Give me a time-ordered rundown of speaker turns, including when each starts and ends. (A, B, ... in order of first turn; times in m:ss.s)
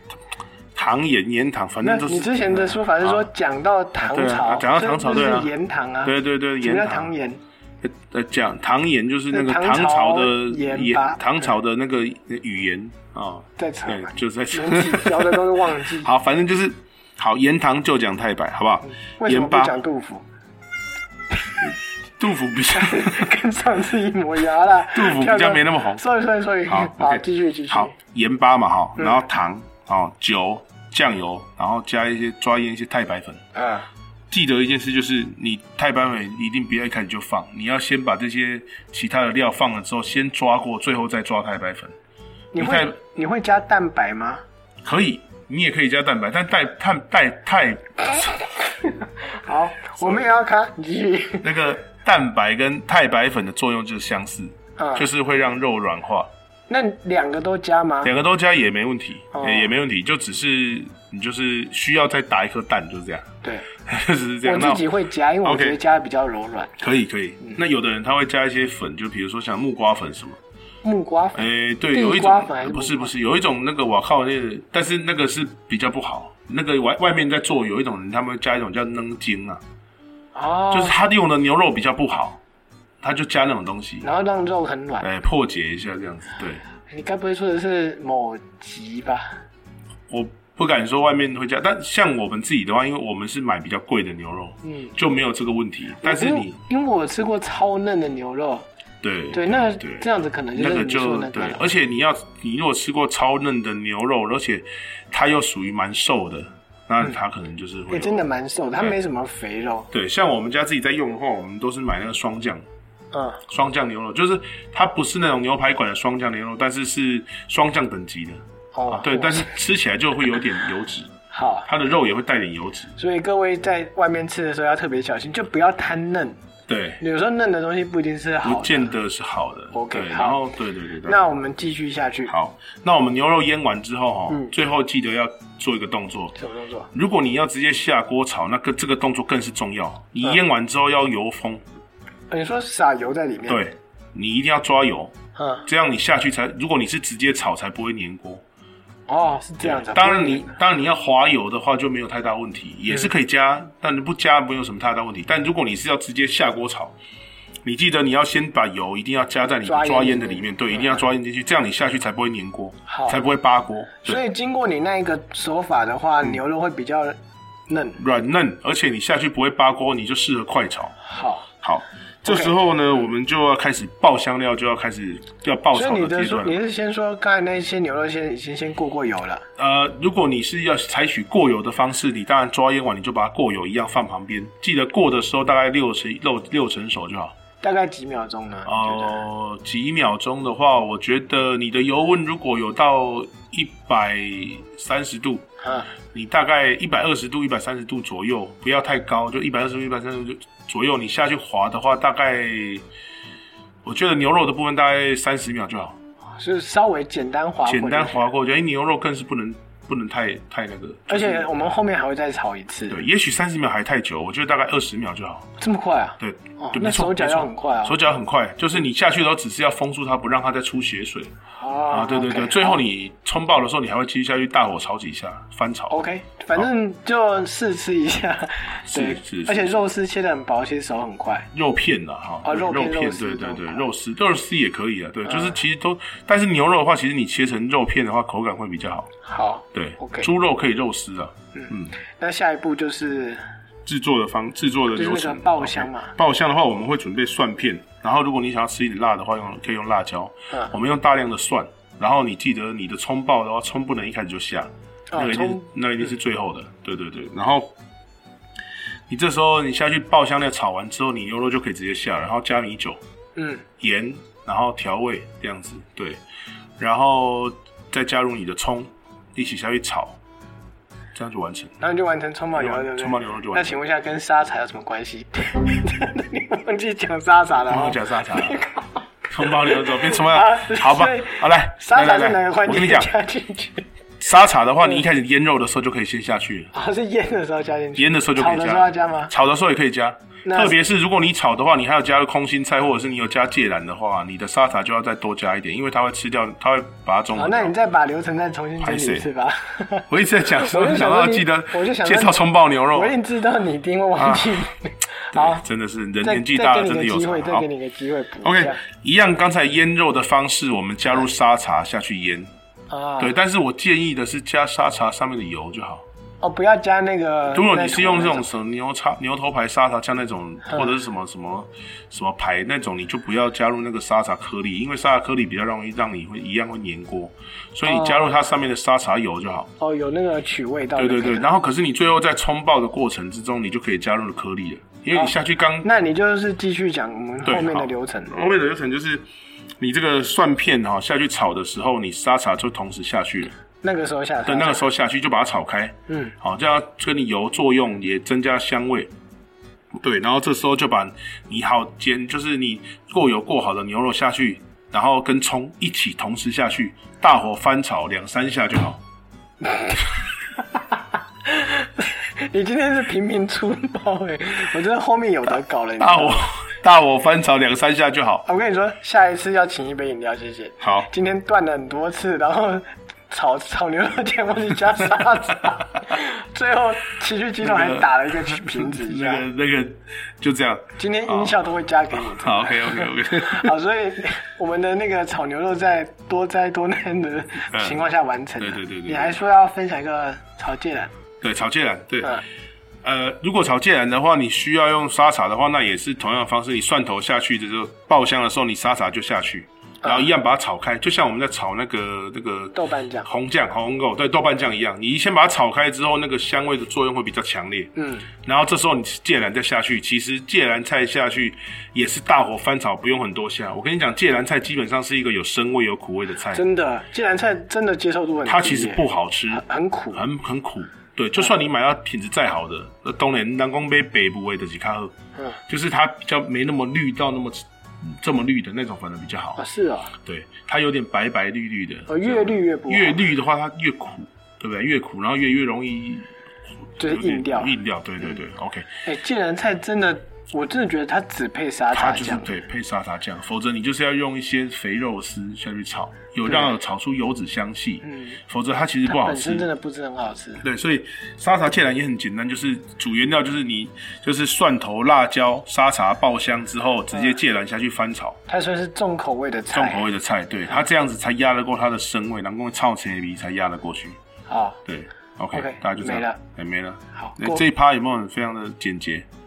0:00.7-0:03.2 A
0:01.8-0:07.4 B
0:04.0-0:05.5 A
0:06.0-0:07.1 A
0:07.8-0:15.5 A
0:09.3-0:11.5 B
0:13.6-0:16.1 B
0:16.0-0:19.7 A
0:18.9-0:20.2 B
0:21.6-0:23.3 A
0:22.7-0:27.9 B
0:24.9-0:26.0 A
0:26.7-0:33.4 A
0:33.5-0:33.9 B
0:34.3-0:41.9 A
0:42.5-0:44.4 B
0:42.6-0:42.9 A
0:44.8-0:48.3 A
0:48.9-0:51.5 B
0:50.0-0:50.2 A
0:51.4-0:56.3 A
0:54.8-0:55.1 B
0:56.7-0:58.1 B
0:58.0-1:04.8 A
0:59.3-0:59.7 B
1:03.4-1:03.7 B
1:04.4-1:06.7 B
1:05.4-1:05.8 A
1:06.8-1:10.4 A
1:10.8-1:13.1 B
1:11.3-1:19.6 A
1:20.3-1:21.0 B
1:20.7-1:22.4 A
1:23.0-1:24.0 A
1:24.0-1:25.1 B
1:25.0-1:26.6 A
1:26.9-1:29.4 B
1:30.1-1:36.6 A
1:34.6-1:34.9 B
1:36.0-1:38.6 B
1:39.0-1:48.2 A
1:39.3-1:41.7 B
1:47.9-1:49.9 B
1:49.9-1:52.6 A
1:53.1-1:53.4 B
1:53.5-2:01.1 A
1:58.7-1:59.5 B
2:01.3-2:01.7 B
2:01.6-2:02.9 A
2:03.0-2:06.4 B
2:06.7-2:07.0 A
2:07.0-2:08.9 B
2:08.4-2:11.2 A
2:09.7-2:10.4 B
2:11.0-2:12.3 B
2:12.3-2:16.3 A
2:16.4-2:16.9 B
2:16.9-2:21.6 A
2:22.3-2:23.6 B
2:23.5-2:25.1 A
2:25.4-2:25.7 B
2:25.6-2:28.4 A
2:29.1-2:30.6 B
2:29.6-2:37.0 A
2:37.6-2:44.2 A
2:39.6-2:41.0 B
2:42.9-2:43.2 B
2:44.0-2:47.2 B
2:47.7-2:48.0 B
2:48.0-2:50.9 A
2:51.0-2:51.5 B
2:51.6-2:56.6 A
2:52.2-2:53.1 B
2:55.7-2:59.4 B
2:59.6-3:07.3 A
3:07.6-3:09.2 B
3:08.6-3:15.4 A
3:15.6-3:15.9 B
3:16.1-3:22.8 A
3:23.8-3:26.0 A
3:26.4-3:28.2 B
3:27.6-3:31.5 A
3:31.1-3:33.0 B
3:32.9-3:35.5 A
3:35.6-3:38.0 B
3:36.2-3:41.3 A
3:41.6-3:42.8 B
3:41.9-3:46.0 A
3:45.9-3:51.5 B
3:48.9-3:49.7 A
3:51.5-3:59.1 A
3:52.4-3:53.9 B
3:55.2-3:55.6 B
3:59.2-4:00.3 B
3:59.7-4:01.9 A
4:01.5-4:03.4 B
4:03.8-4:17.7 A
4:04.9-4:06.1 B
4:15.1-4:15.7 B
4:19.1-4:23.0 A
4:23.4-4:23.6 B
4:23.8-4:26.2 A
4:26.8-4:30.2 A
4:31.1-4:31.8 A
4:31.8-4:43.8 B
4:32.5-4:33.8 A
4:37.7-4:38.6 A
4:39.3-4:43.1 A
4:44.2-4:46.7 A
4:46.7-4:49.3 B
4:48.0-4:57.7 A
4:50.4-4:50.8 B
4:57.3-5:02.4 B
4:58.8-4:59.3 A
5:00.1-5:03.2 A
5:02.9-5:05.6 B
5:04.2-5:04.6 A
5:05.3-5:07.7 A
5:06.2-5:08.8 B
5:08.4-5:12.5 A
5:12.9-5:13.3 B
5:13.2-5:16.0 A
5:16.4-5:18.5 B
5:17.5-5:29.7 A
5:20.6-5:20.9 B
5:27.9-5:28.3 B
5:29.8-5:31.5 B
5:31.0-5:35.9 A
5:35.1-5:38.4 B
5:37.4-5:39.2 A
5:39.8-5:43.5 A
5:43.8-5:44.8 B
5:44.4-5:49.1 A
5:46.1-5:46.3 B
5:49.9-5:59.0 A
6:01.4-6:06.4 B
6:06.0-6:08.4 A
6:08.4-6:19.5 B
6:10.8-6:11.1 A
6:17.6-6:21.6 A
6:21.0-6:31.1 B
6:22.1-6:23.7 A
6:27.7-6:28.0 A
6:28.6-6:29.4 A
6:31.4-6:32.4 A
6:33.0-6:56.6 A
6:40.0-6:40.3 B
6:42.7-6:43.3 B
6:48.0-6:48.3 B
6:56.5-7:00.2 B
6:58.4-7:05.1 A
7:05.7-7:09.6 A
7:09.6-7:10.1 B
7:10.2-7:16.3 A
7:12.1-7:13.2 B
7:17.0-7:18.9 A
7:17.0-7:17.7 B
7:19.0-7:22.5 B
7:21.9-7:29.7 A
7:26.4-7:26.7 B
7:28.0-7:28.4 B
7:29.1-7:30.6 B
7:30.6-7:38.4 A
7:38.5-7:40.1 B
7:39.7-7:44.2 A
7:44.5-7:44.8 B
7:44.8-7:49.3 A
7:45.5-7:46.4 B
7:47.2-7:47.6 B